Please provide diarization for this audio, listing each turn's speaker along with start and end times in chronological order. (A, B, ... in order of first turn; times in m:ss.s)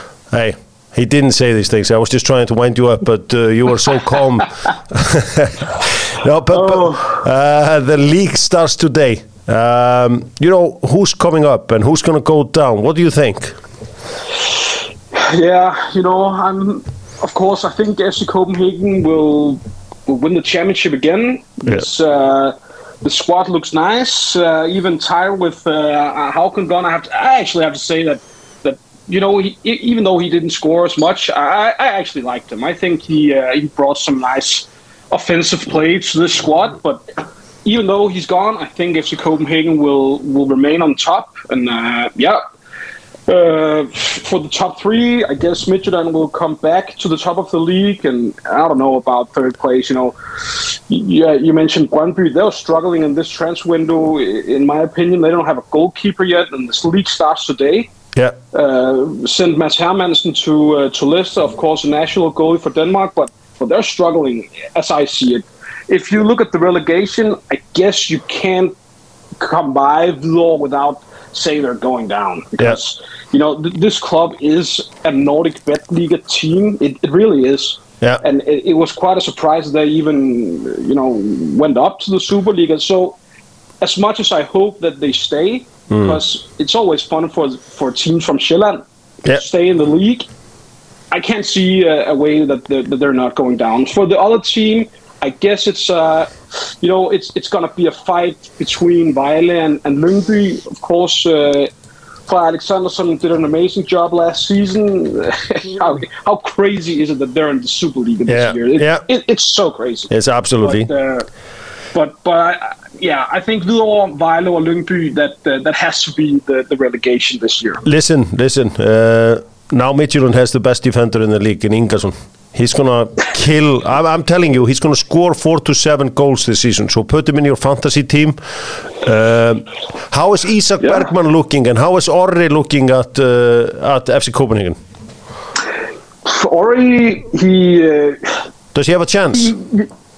0:00.3-0:13.6 A
0:06.5-0:07.2 B
0:15.1-0:37.0 B
0:37.6-0:42.4 B
0:43.3-0:57.9 B
0:58.5-1:08.8 B
1:09.4-1:23.2 B
1:23.8-1:30.3 B
1:25.9-1:26.2 A
1:31.1-1:41.7 B
1:42.3-1:51.3 B
1:48.3-1:49.0 A
1:50.1-1:50.9 A
1:51.9-1:57.8 B
1:57.8-2:08.4 A
2:09.0-2:14.8 A
2:16.2-2:18.5 B
2:18.7-2:19.6 A
2:19.4-2:19.9 B